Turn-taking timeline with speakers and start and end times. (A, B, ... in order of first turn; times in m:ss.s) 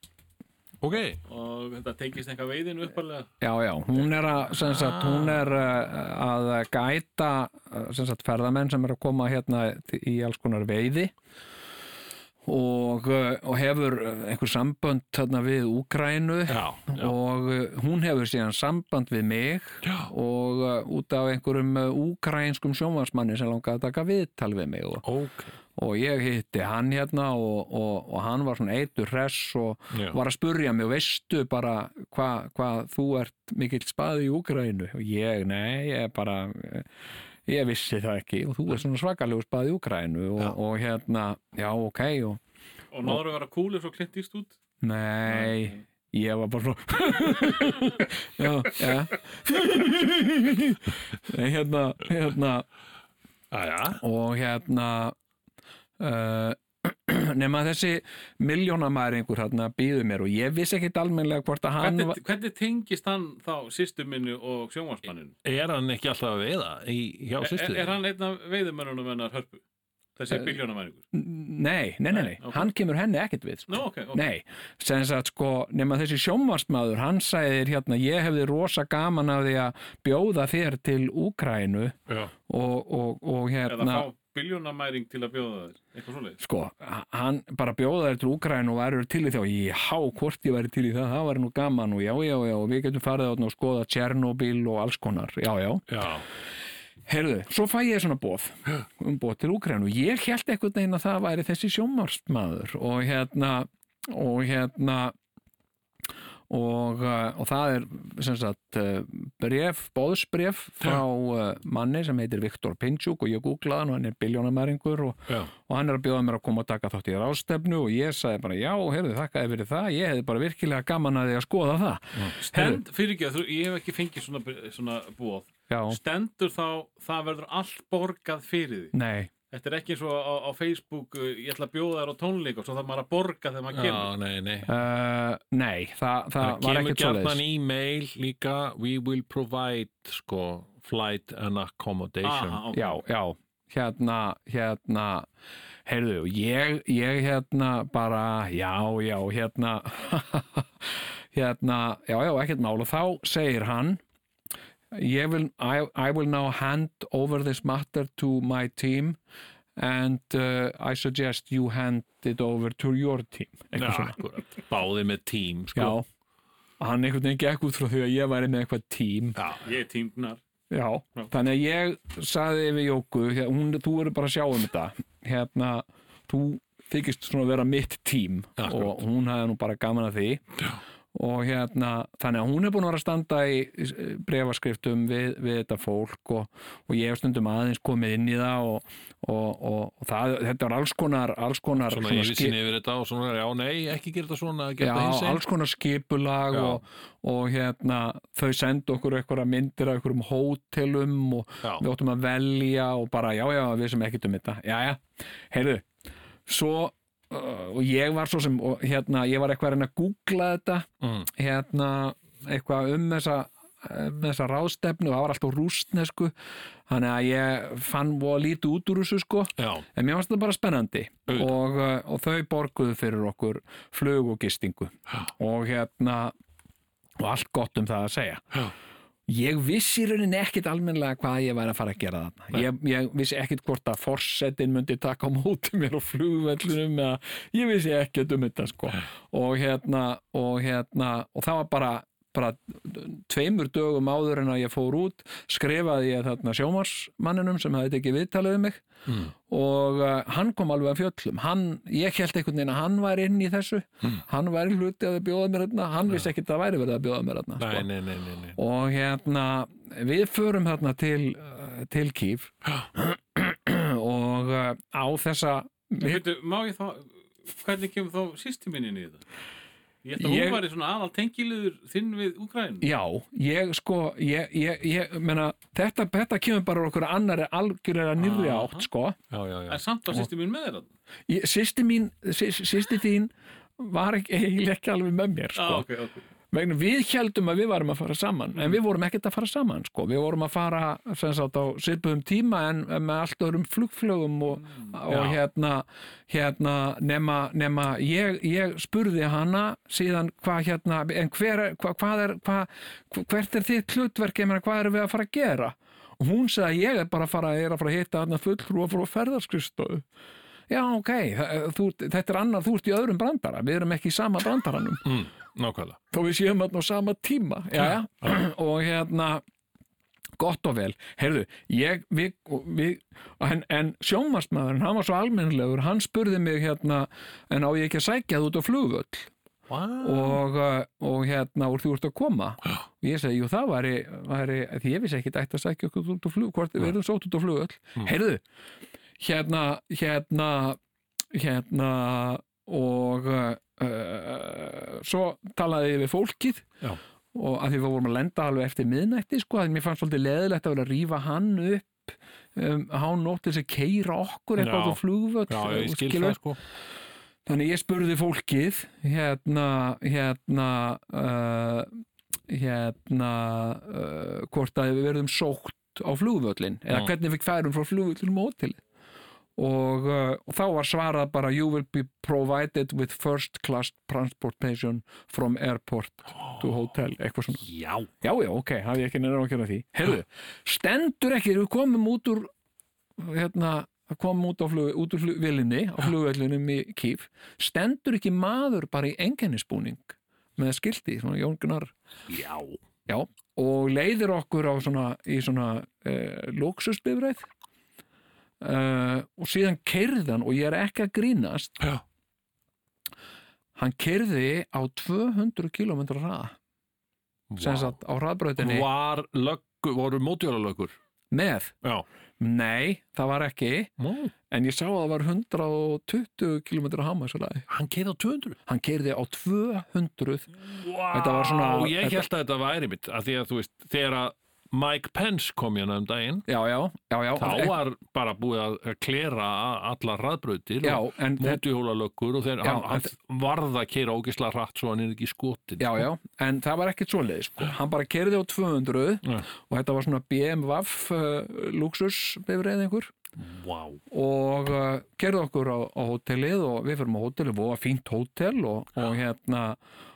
0:00.8-0:01.2 A
0:01.3-0:03.3 B
0:03.4-0:11.1 C
0:04.6-0:05.5 A
0:12.4-0:25.0 C
0:16.5-0:17.2 A
0:19.8-0:20.1 A
0:25.0-0:25.5 A
0:25.8-0:36.9 C
0:29.9-0:30.2 A
0:37.5-0:42.4 C
0:42.9-0:44.6 B
0:44.8-0:52.7 C
0:45.3-0:45.8 B
0:53.5-0:54.0 A
0:54.0-0:55.2 C
0:56.0-1:02.2 C
1:01.8-1:05.4 B
1:05.4-1:08.0 A
1:07.4-1:09.6 B
1:10.2-1:11.0 B
1:11.1-1:22.0 C
1:12.1-1:12.7 B
1:13.7-1:14.2 B
1:22.5-1:24.1 C
1:23.7-1:26.4 B
1:26.4-1:36.1 C
1:35.9-1:36.2 A
1:37.0-1:45.2 C
1:46.5-2:02.8 C
2:02.4-2:08.9 B
2:05.7-2:06.0 C
2:08.9-2:09.3 C
2:09.5-2:14.1 B
2:13.7-2:14.7 A
2:14.7-2:17.4 C
2:16.4-2:22.6 A
2:22.2-2:23.0 B
2:22.7-2:25.3 C
2:25.9-2:34.0 C
2:34.9-2:39.2 C
2:39.8-2:44.2 C
2:43.8-2:46.0 A
2:45.7-2:46.0 C
2:46.8-2:49.4 C
2:49.4-2:49.6 A
2:49.6-2:50.4 B
2:50.7-3:00.5 C
2:58.6-2:59.0 A
3:01.1-3:12.6 C
3:11.9-3:15.4 A
3:14.8-3:25.9 C
3:16.5-3:16.8 A
3:26.5-3:36.3 C
3:31.0-3:31.3 A
3:36.9-3:46.3 C
3:39.6-3:39.9 A
3:41.3-3:41.6 A
3:47.2-3:48.4 C
3:49.3-4:08.9 C
4:09.1-4:09.3 A
4:09.4-4:17.9 C
4:17.6-4:18.6 A
4:18.6-4:26.2 C
4:26.0-4:29.2 B
4:30.0-4:32.9 B
4:30.2-4:30.6 C
4:32.8-4:39.2 C
4:38.2-4:38.9 B
4:39.3-4:39.8 A
4:39.7-4:40.9 B
4:41.3-4:45.9 C
4:45.6-4:46.3 B
4:46.5-5:10.0 C
4:55.1-4:55.4 A
5:10.7-5:15.2 C
5:15.0-5:16.0 A
5:16.1-5:19.4 C
5:17.8-5:18.3 A
5:20.4-5:29.3 C
5:29.7-5:30.4 A
5:30.0-5:38.4 C
5:39.2-5:40.8 C
5:41.3-5:46.8 C
5:47.3-5:56.4 C
5:54.6-5:56.6 A
5:57.5-6:08.8 C
6:09.6-6:17.7 C
6:17.6-6:18.1 A
6:18.2-6:22.5 C
6:23.2-6:31.9 C
6:32.3-6:32.8 A
6:33.1-6:37.5 C
6:38.6-6:41.8 C
6:43.8-6:46.6 C
6:47.5-6:48.0 A
6:47.6-6:48.9 C
6:48.6-6:51.0 A
6:51.3-6:51.7 C
6:52.4-6:53.9 C
6:54.0-6:54.3 A
6:54.5-6:57.7 C
6:57.7-6:58.6 A
6:58.7-7:02.3 C
7:00.6-7:06.5 A
7:06.5-7:07.8 C
7:07.4-7:16.1 A
7:10.8-7:11.6 C
7:12.6-7:13.1 C
7:15.8-7:23.1 C
7:23.4-7:24.0 A
7:24.1-7:29.8 C